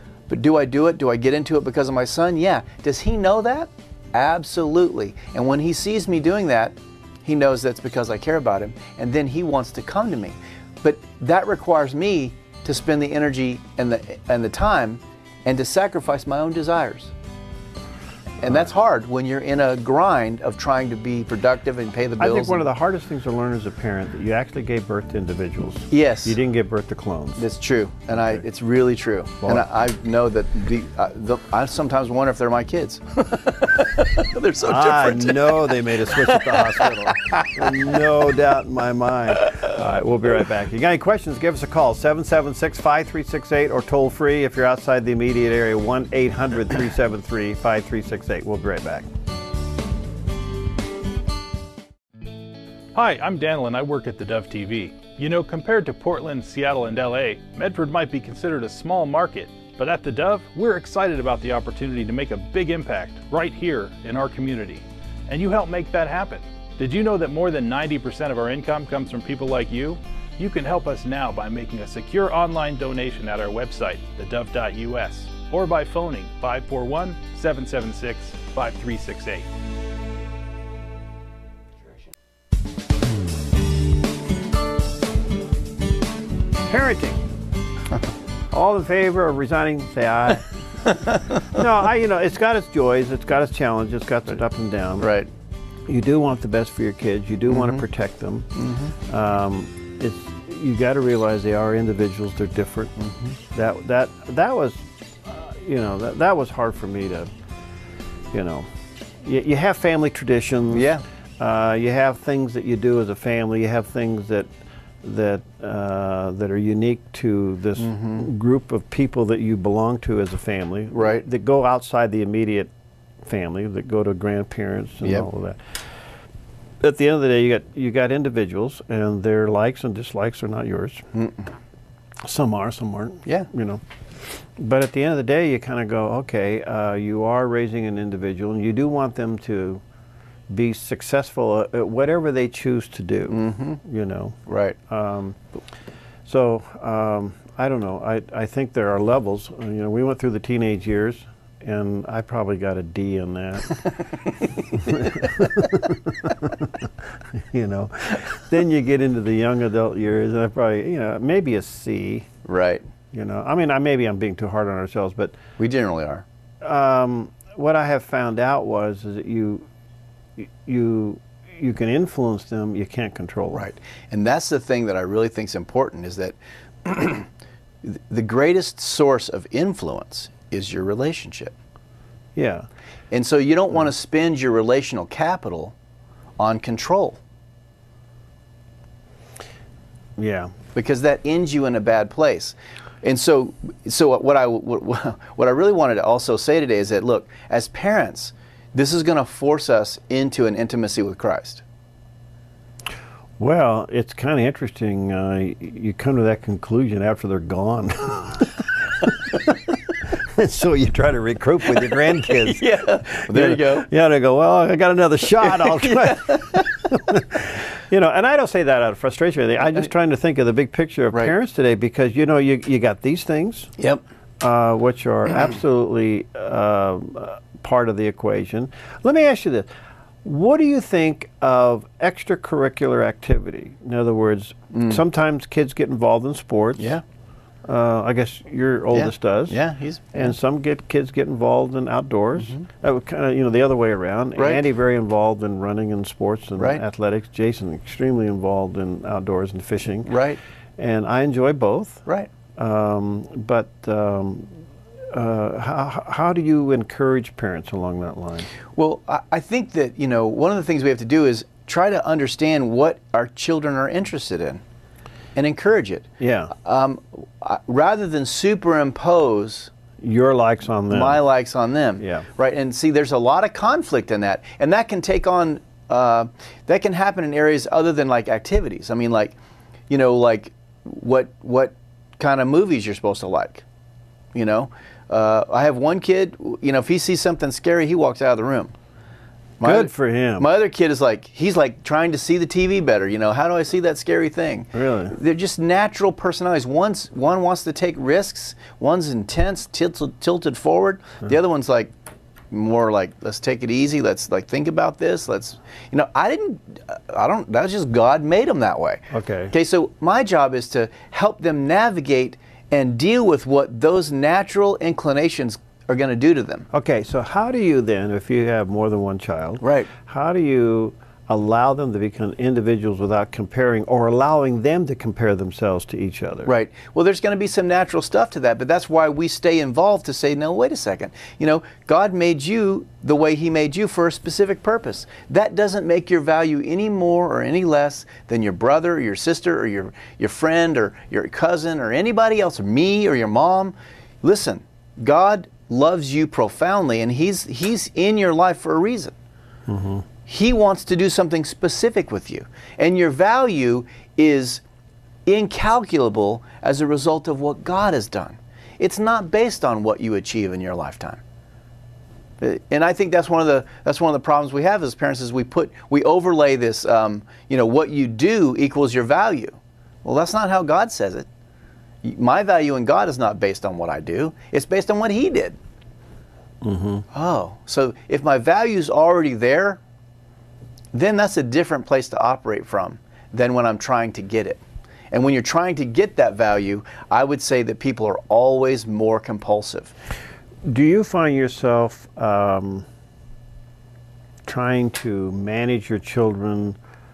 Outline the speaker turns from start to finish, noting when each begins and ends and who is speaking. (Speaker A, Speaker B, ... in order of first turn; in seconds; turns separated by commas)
Speaker A: 0.3-17.1, Speaker A: 18.4-22.6, Speaker B: 22.2-27.4, Speaker A: 25.9-26.4, Speaker A: 27.4-37.9, Speaker B: 28.1-28.4, Speaker B: 34.6-49.1, Speaker A: 39.4-39.7, Speaker C: 52.9-79.5, Speaker B: 86.7-87.2, Speaker B: 88.5-90.5, Speaker B: 91.3-95.2, Speaker A: 95.0-95.3, Speaker B: 95.9-107.3, Speaker A: 97.5-97.8, Speaker A: 98.5-98.9, Speaker A: 103.0-103.3, Speaker B: 108.3-108.7, Speaker B: 109.2-114.5, Speaker A: 110.7-111.0, Speaker B: 115.0-122.7, Speaker A: 117.8-118.2, Speaker A: 120.9-121.2, Speaker B: 123.2-125.7, Speaker B: 126.8-131.1, Speaker A: 131.1-131.5, Speaker B: 132.2-139.8, Speaker B: 140.5-145.4, Speaker A: 143.3-143.8, Speaker A: 144.5-144.8, Speaker B: 146.2-153.8, Speaker B: 154.7-162.3, Speaker A: 162.4-162.8, Speaker B: 163.1-165.4, Speaker A: 165.6-166.2, Speaker B: 166.6-169.7, Speaker B: 170.4-173.7, Speaker A: 173.5-177.3, Speaker A: 177.8-181.5, Speaker B: 182.3-182.7, Speaker A: 183.1-185.7, Speaker A: 186.4-187.2, Speaker B: 190.2-190.5, Speaker A: 190.7-201.6, Speaker B: 203.4-209.5, Speaker B: 210.1-223.7, Speaker A: 212.3-213.9, Speaker A: 215.4-216.7, Speaker B: 224.4-229.7, Speaker B: 230.2-237.0, Speaker A: 234.7-235.0, Speaker A: 236.8-237.0, Speaker B: 237.7-239.6, Speaker A: 238.9-240.3, Speaker B: 240.1-250.2, Speaker A: 242.4-242.6, Speaker A: 244.4-244.6, Speaker A: 250.1-250.4, Speaker B: 250.8-254.5, Speaker A: 252.1-252.3, Speaker B: 255.1-258.5, Speaker A: 258.8-264.6, Speaker A: 265.4-269.7, Speaker B: 266.2-266.5, Speaker B: 270.0-271.2, Speaker A: 270.9-279.4, Speaker B: 272.0-272.3, Speaker A: 279.9-283.6, Speaker A: 284.3-288.7, Speaker A: 289.6-301.9, Speaker B: 289.6-290.5, Speaker B: 294.7-295.2, Speaker A: 302.5-316.7, Speaker B: 309.1-309.5, Speaker B: 316.7-326.5, Speaker A: 319.6-319.9, Speaker A: 326.4-349.1, Speaker B: 349.7-350.0, Speaker A: 350.3-354.6, Speaker A: 355.2-361.2, Speaker A: 362.4-371.3, Speaker A: 372.0-375.6, Speaker B: 376.6-377.1, Speaker A: 377.1-379.8, Speaker A: 380.9-384.6, Speaker A: 385.1-389.9, Speaker B: 390.6-392.9, Speaker B: 394.4-396.8